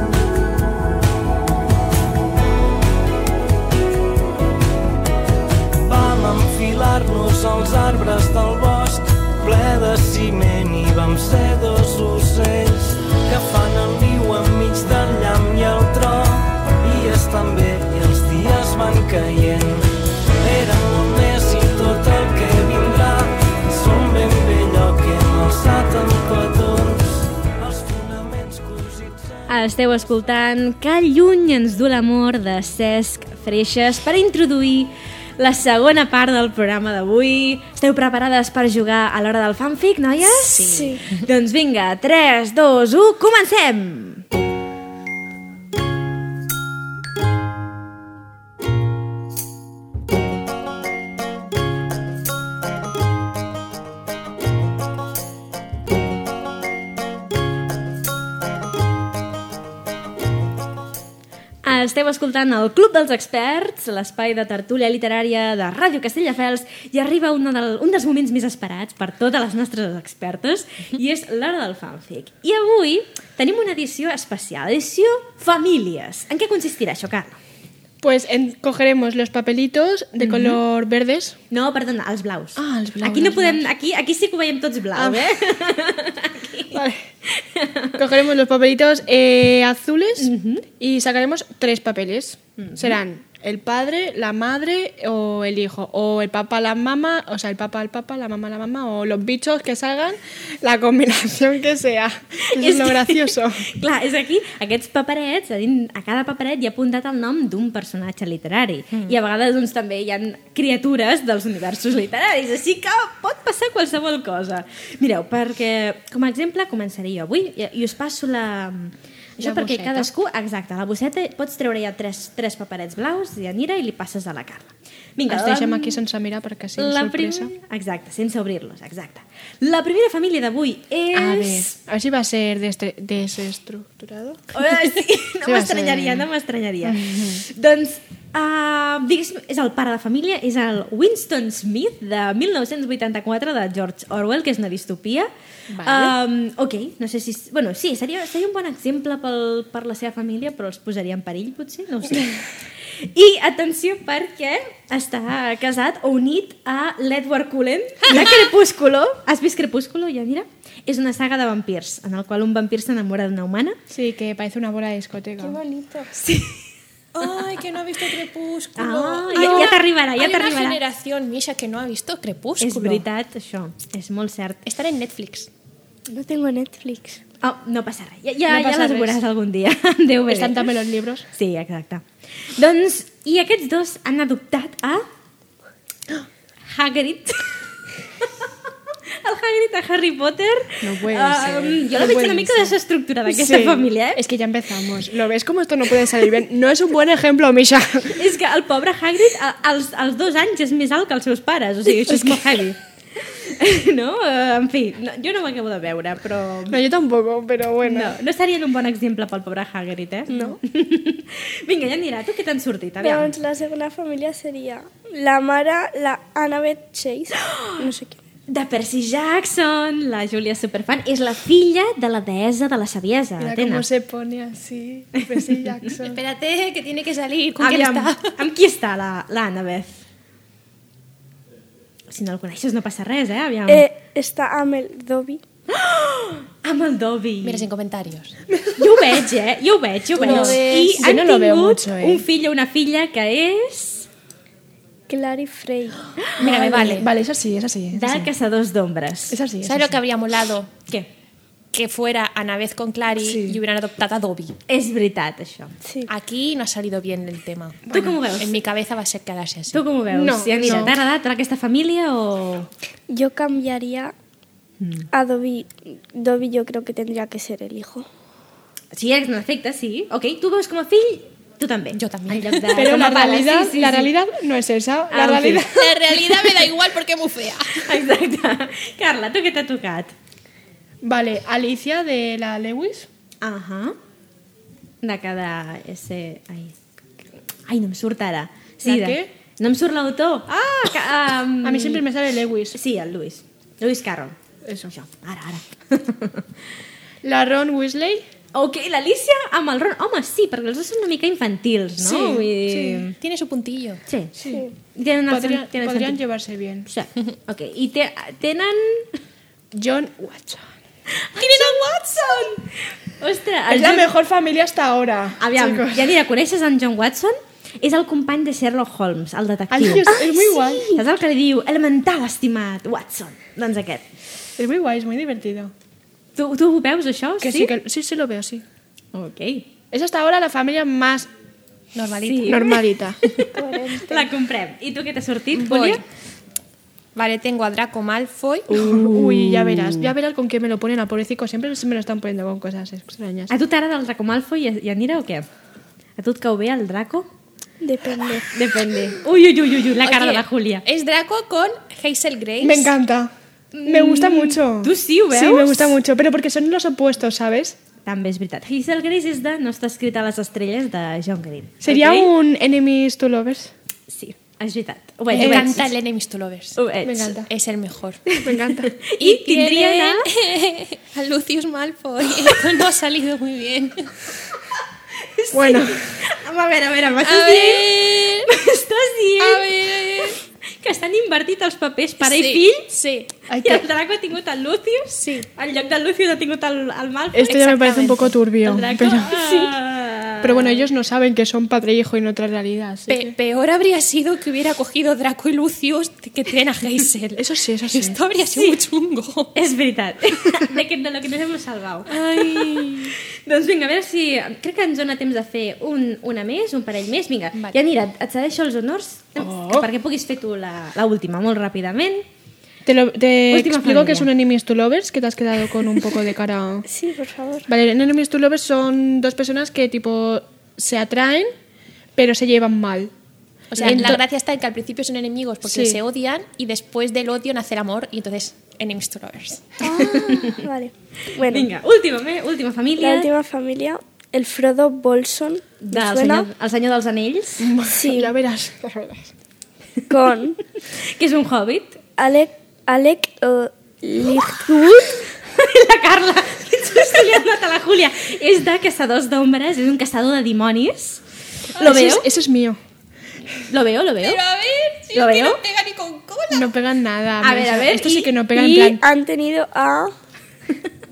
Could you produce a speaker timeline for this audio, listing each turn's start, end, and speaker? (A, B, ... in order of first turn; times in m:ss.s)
0:05.8-0:29.5 A
0:29.5-0:44.2 B
0:40.5-0:41.0 C
1:01.6-1:17.4 B
1:18.0-1:21.4 D
1:20.2-1:20.6 B
1:21.5-1:28.0 B
1:22.6-1:23.6 D
1:24.9-1:25.3 D
1:26.7-1:27.0 D
1:28.0-1:43.6 D
1:30.2-1:30.6 B
1:32.6-1:33.0 B
1:42.5-2:06.0 B
1:59.4-2:00.1 D
2:05.3-2:07.5 D
2:06.8-2:11.7 B
2:11.1-2:14.5 D
2:14.5-2:25.3 B
2:15.4-2:16.3 D
2:16.8-2:17.4 D
2:25.7-2:26.0 D
2:25.8-2:32.4 B
2:25.9-2:26.1 E
2:33.0-2:43.8 B
2:43.9-2:45.6 D
2:45.4-2:46.1 C
2:47.2-2:53.0 E
2:47.2-2:49.8 D
2:48.8-2:50.8 B
2:52.6-2:54.6 B
2:54.6-2:55.5 E
2:56.1-2:57.2 C
2:57.4-3:00.7 B
2:58.5-2:59.2 D
3:00.3-3:01.2 D
3:01.3-3:02.0 B
3:02.6-3:05.1 B
3:06.7-3:07.6 B
3:09.2-3:14.2 B
3:10.8-3:12.8 D
3:13.3-3:18.2 D
3:18.1-3:22.8 B
3:22.1-3:22.5 D
3:23.4-3:26.8 B
3:26.7-3:28.1 D
3:27.8-3:33.3 B
3:30.3-3:30.6 C
3:33.0-3:38.2 C
3:37.4-3:37.9 B
3:38.5-3:43.9 B
3:43.4-3:46.2 D
3:45.2-3:45.5 B
3:46.0-3:48.4 E
3:47.6-3:50.0 B
3:52.1-3:53.9 B
3:53.7-3:55.4 C
3:55.7-3:57.6 B
3:57.4-3:58.4 E
3:58.5-3:59.2 D
3:58.8-4:04.1 B
4:00.2-4:01.1 E
4:00.2-4:02.2 D
4:05.1-4:06.1 C
4:06.2-4:06.5 B
4:06.4-4:08.3 D
4:06.4-4:07.1 E
4:07.9-4:09.4 B
4:09.3-4:09.9 D
4:09.6-4:10.7 E
4:11.7-4:14.6 E
4:13.2-4:13.6 D
4:14.7-4:15.7 B
4:15.8-4:16.1 C
4:16.1-4:19.9 E
4:17.9-4:18.2 D
4:17.9-4:18.6 B
4:19.7-4:22.7 B
4:20.1-4:21.0 D
4:23.1-4:24.1 C
4:24.8-4:25.1 B
4:25.1-4:28.1 C
4:28.9-4:34.1 B
4:31.9-4:33.2 E
4:32.7-4:35.9 D
4:35.1-4:35.7 B
4:35.6-4:38.0 E
4:37.7-4:40.1 B
4:41.0-4:43.1 D
4:43.4-4:44.0 B
4:45.0-4:46.8 B
4:47.7-4:52.1 B
4:48.8-4:49.3 D
4:51.6-4:52.8 D
4:52.7-4:54.4 B
4:54.6-4:54.9 D
4:54.9-4:56.5 B
4:57.2-4:58.2 D
4:58.5-5:03.1 B
5:02.0-5:03.0 D
5:03.1-5:04.0 E
5:04.1-5:04.4 B
5:04.4-5:04.7 D
5:04.9-5:06.2 B
5:05.3-5:06.9 D
5:06.9-5:09.1 B
5:09.7-5:10.6 D
5:11.2-5:14.1 B
5:11.4-5:12.5 D
5:13.7-5:16.1 D
5:15.4-5:24.1 B
5:19.7-5:21.0 D
5:24.6-5:25.7 D
5:26.4-5:27.7 B
5:27.4-5:28.6 D
5:29.1-5:29.7 B
5:29.9-5:31.3 D
5:31.9-5:32.7 E
5:32.2-5:36.0 B
5:32.4-5:33.4 D
5:33.5-5:34.3 C
5:35.5-5:36.0 E
5:37.1-5:39.0 E
5:38.7-5:40.1 B
5:38.8-5:43.5 D
5:43.5-5:45.5 B
5:46.2-5:47.3 B
5:47.8-5:48.4 C
5:48.5-5:50.8 B
5:50.0-5:52.9 E
5:52.6-5:53.3 D
5:53.8-5:56.0 B
5:53.8-5:57.8 D
5:58.0-6:02.3 B
6:01.8-6:03.7 D
6:04.1-6:05.9 B
6:05.3-6:05.8 D
6:05.3-6:06.8 E
6:06.8-6:07.4 B
6:07.0-6:07.5 D
6:07.4-6:08.2 E
6:08.3-6:10.3 B
6:08.4-6:09.0 D
6:09.1-6:14.1 E
6:15.2-6:22.9 B
6:15.5-6:16.2 D
6:17.2-6:18.5 E
6:19.4-6:20.4 E
6:22.2-6:23.3 E
6:23.5-6:23.9 D
6:23.6-6:28.0 B
6:25.2-6:25.5 E
6:27.3-6:29.7 D
6:27.4-6:28.4 E
6:28.6-6:30.9 B
6:30.4-6:33.3 D
6:33.1-6:39.6 E
6:37.4-6:38.2 D
6:38.5-6:38.8 B
6:39.5-6:52.3 B
6:42.1-6:43.1 E
6:49.4-6:49.9 D
6:52.9-6:56.9 D
6:53.5-6:54.3 B
6:56.9-6:57.7 C
6:57.7-7:01.5 D
7:02.2-7:03.1 D
7:03.7-7:04.2 D
7:03.7-7:09.8 E
7:05.6-7:06.0 D
7:09.8-7:11.7 C
7:10.0-7:10.6 B
7:11.4-7:13.3 B
7:13.0-7:16.5 C
7:15.8-7:17.7 B
7:17.6-7:19.3 D
7:17.9-7:18.4 C
7:20.1-7:20.6 C
7:21.0-7:22.0 B
7:22.2-7:25.2 C
7:25.5-7:31.2 B
7:31.8-7:32.3 B
7:31.8-7:32.8 D
7:33.7-7:34.4 B
7:34.2-7:36.7 E
7:35.1-7:35.6 B
7:36.5-7:39.0 D
7:37.4-7:38.4 B
7:38.5-7:40.1 C